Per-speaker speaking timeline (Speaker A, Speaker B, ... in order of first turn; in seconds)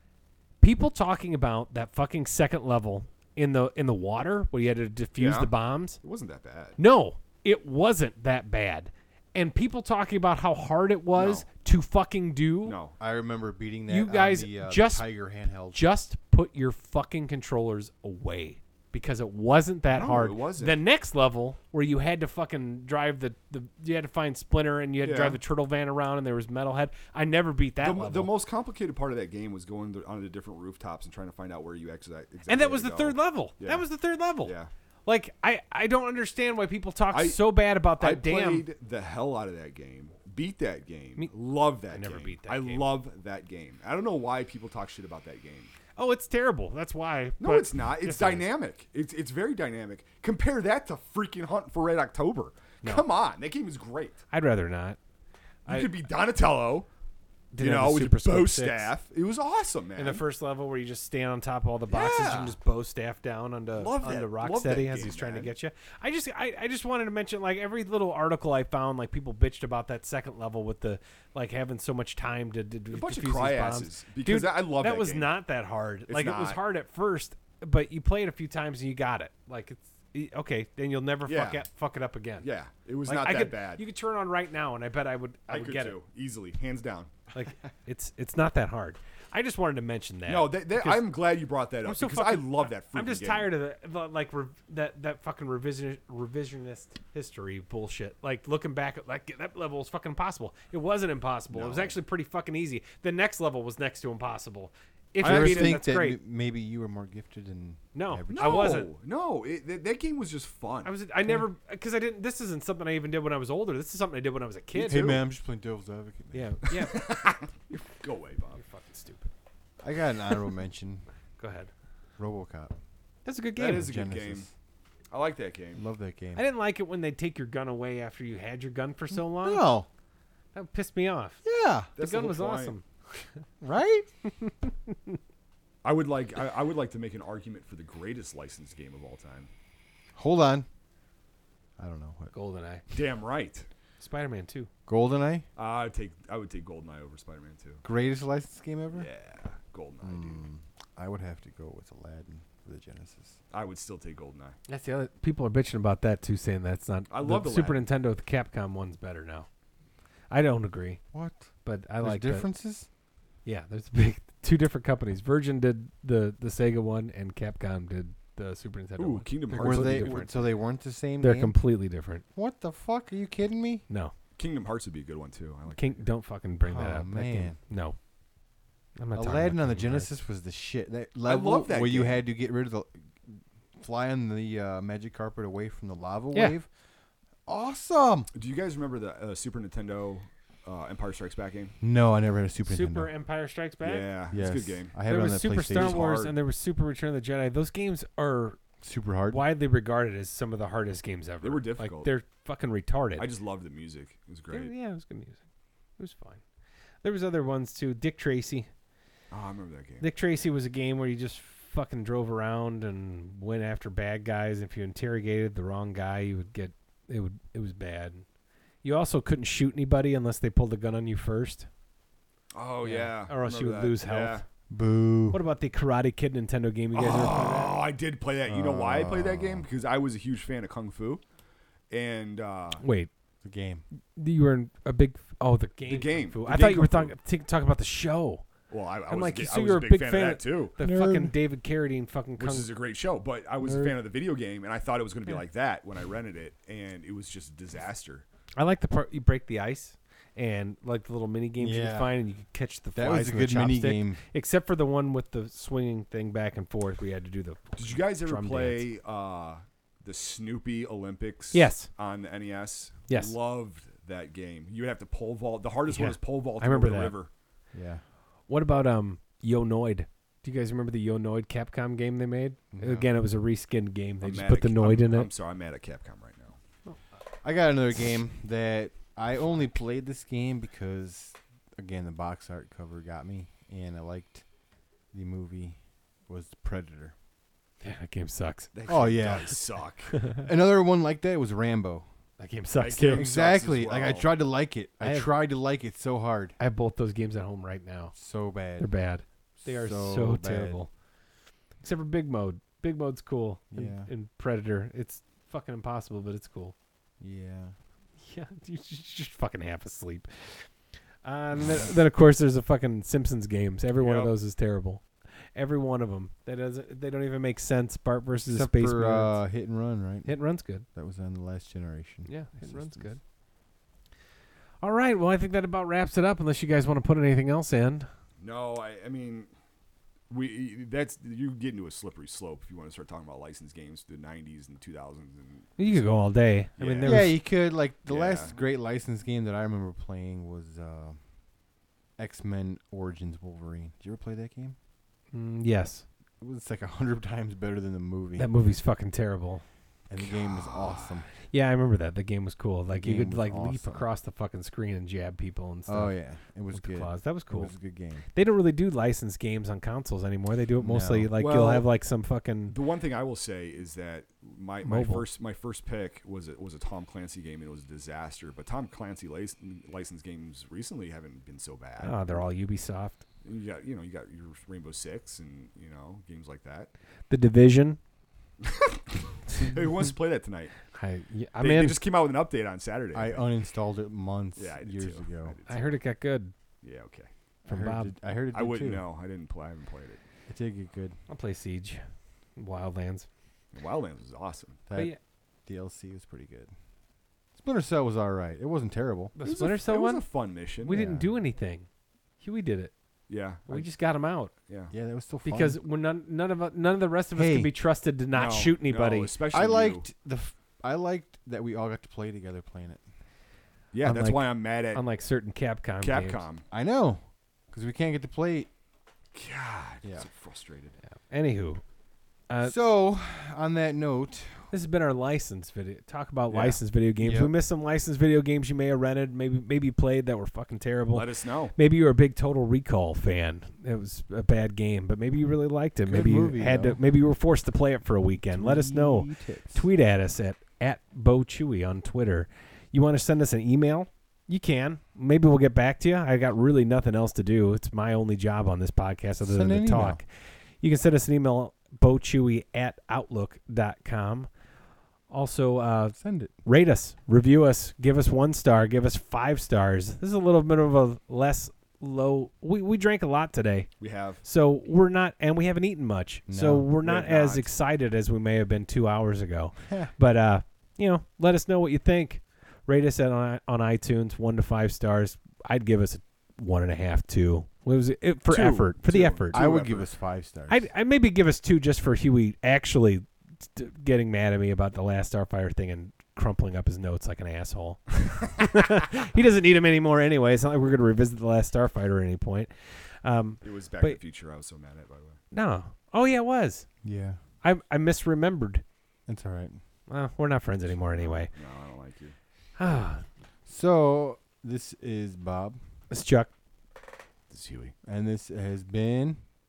Speaker A: 0.6-6.0, 6.8-12.8, 13.9-15.0, 15.7-28.3, 32.5-34.5, 35.0-38.6, 41.9-42.9, 46.0-48.5, 54.3-55.0, 57.5-58.9, 60.0-82.5, 83.1-86.0, 87.3-91.0, 91.8-106.2, 107.9-108.9, 110.8-115.2, 116.3-117.0, 118.5-119.3, 121.4-121.7, 123.2-123.9, 126.3-129.7, 130.5-131.4, 132.0-132.8, 134.2-135.2, 142.3-142.8, 144.0-144.7, 154.7-159.5, 160.3-161.0, 161.6-162.4, 163.4-170.5, 171.2-172.2, 175.7-177.9, 179.0-180.1, 192.7-194.1, 195.0-198.6, 199.3-203.3, 204.5-205.4, 206.0-206.4, 207.0-208.7, 210.0-218.2, 218.8-221.7, 222.8-224.4, 225.3-227.8, 232.8-233.1, 234.1-238.4, 239.1-242.7, 248.6-258.8, 261.5-261.9, 263.1-263.3, 265.9-267.1, 268.5-275.3, 287.8-288.7, 290.1-290.4, 292.4-293.3, 295.0-295.3, 296.6-298.1, 298.8-300.9, 301.8-306.7, 308.2-310.7, 311.2-315.0, 315.5-319.4, 320.2-320.9, 322.2-323.2, 324.8-328.1, 335.8-337.3, 345.3-346.0, 348.4-349.6, 351.5-356.1, 356.7-357.7, 358.3-362.7, 364.8-365.2, 372.0-373.2, 377.3-378.0, 380.9-382.0, 385.7-386.5, 387.6-388.1, 391.3-392.0, 392.6-393.3, 394.9-395.2, 399.4-400.2, 400.8-401.9, 402.4-402.9, 403.7-404.5, 405.4-409.3, 414.0-416.4, 421.3-421.8, 422.5-422.7, 424.7-450.2, 450.8-454.5, 455.3-463.9, 464.4-479.6, 480.7-492.7, 493.2-494.2, 495.5-496.9, 497.6-498.8, 500.1-501.5, 502.8-503.2, 506.1-506.5
Speaker B: 5.2-5.5, 6.0-6.8, 11.1-11.4, 12.6-12.9, 19.9-20.8, 25.0-25.4, 27.8-33.9, 34.4-34.7, 37.1-45.7, 47.4-54.2, 55.6-56.9, 57.6-60.2, 61.9-62.5, 63.8-65.5, 72.9-75.4, 76.1-76.6, 81.2-81.6, 82.4-83.8, 85.5-87.1, 90.2-93.5, 101.5-102.0, 105.2-105.8, 108.3-110.9, 116.7-118.6, 123.5-124.5, 125.1-125.8, 131.9-132.8, 135.8-139.5, 142.9-143.7, 145.6-147.8, 148.9-150.4, 153.5-154.6, 157.1-157.8, 169.0-170.2, 174.4-176.0, 181.2-182.2, 188.3-191.7, 193.8-194.9, 195.7-196.3, 201.4-202.1, 203.2-204.7, 209.3-210.1, 222.5-224.4, 226.9-231.2, 231.9-232.8, 235.9-237.1, 238.7-240.7, 242.4-248.2, 257.8-267.3, 274.2-276.6, 288.7-290.1, 292.8-294.3, 314.0-314.3, 328.4-329.5, 330.3-336.0, 336.8-337.4, 338.1-338.5, 350.3-351.2, 361.4-361.9, 362.7-372.4, 373.4-376.9, 378.6-380.7, 381.6-383.5, 384.6-386.0, 386.8-387.3, 388.5-390.2, 393.7-394.8, 399.4-401.0, 403.3-403.9, 404.7-404.9, 408.3-410.1, 413.9-415.0, 416.0-416.6, 419.3-420.9, 426.5-426.8, 431.1-431.7, 464.0-464.4, 467.0-467.7, 478.5-480.1, 493.6-495.4, 501.1-502.3, 507.5-507.9
Speaker C: 13.0-15.8, 105.2-108.8, 114.7-116.5, 119.8-121.0, 122.2-122.7, 123.7-124.5, 125.8-126.4, 129.4-129.9, 131.4-131.9, 133.6-134.1, 140.2-140.7, 141.8-142.3, 144.9-145.4, 147.8-149.1, 150.0-153.4, 161.1-161.5, 162.0-162.9, 169.5-171.6, 172.3-173.8, 176.6-177.6, 179.1-186.7, 187.4-188.3, 191.8-193.1, 194.3-196.0, 198.8-199.4, 224.7-225.4, 228.5-229.7, 233.4-233.8, 240.8-241.3, 243.6-243.9, 251.6-252.1, 252.9-254.2, 267.7-268.0, 272.7-273.1, 277.4-284.4, 285.1-287.1, 288.9-289.6, 290.4-292.1, 293.1-296.5, 298.1-298.9, 299.6-300.8, 303.7-304.1, 307.2-307.7, 318.5-320.3, 320.9-323.1, 337.0-341.2, 342.2-344.8, 346.4-348.5, 350.1-351.3, 352.9-354.1, 355.9-358.2, 360.8-361.3, 383.1-385.6, 387.6-389.0, 390.5-391.1, 395.6-396.7, 397.6-399.3, 400.9-401.3, 404.9-405.8, 407.4-407.7, 409.5-413.0, 416.7-418.7, 422.6-424.7, 427.2-427.5, 436.1-437.0, 438.5-439.9, 449.4-450.2, 456.2-456.5, 466.5-466.9, 469.8-470.1, 479.5-480.8, 497.0-497.4, 499.3-499.8, 503.7-505.8, 508.1-509.4